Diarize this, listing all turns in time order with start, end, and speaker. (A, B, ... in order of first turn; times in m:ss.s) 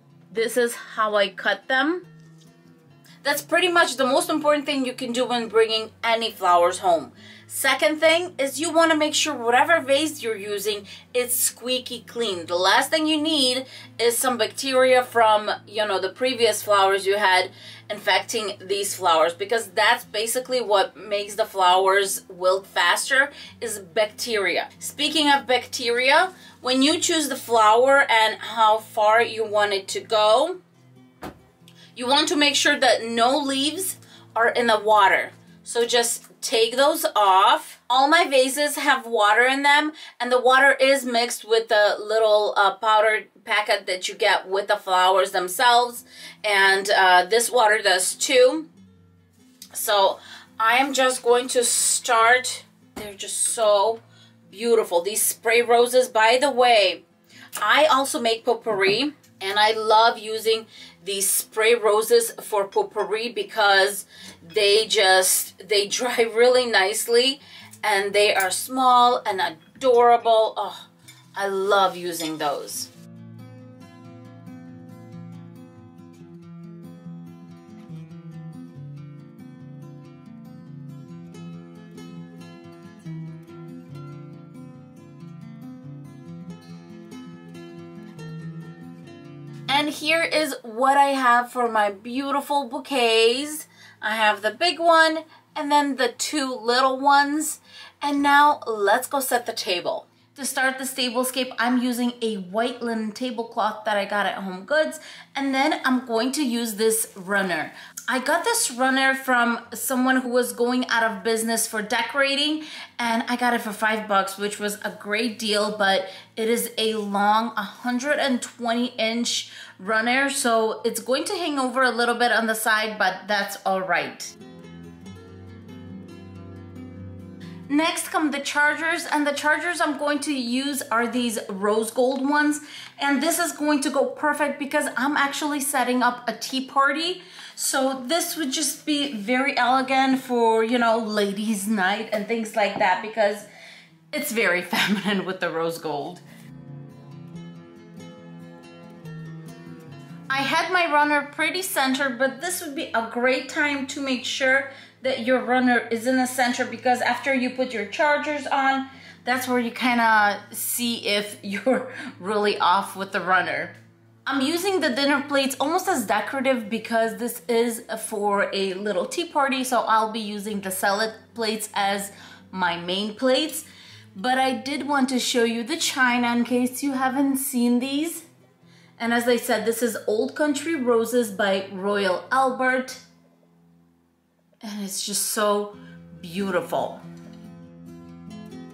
0:00.3-0:02.1 A
0:03.2-0:30.6 A
0:31.9-0:48.7 A
0:49.7-0:57.0 A
0:57.6-1:12.9 A
1:29.7-2:04.3 A
2:07.7-2:23.5 A
2:24.1-2:26.2 A
2:30.3-2:58.2 A
2:59.0-3:03.0 A
3:04.6-3:07.0 A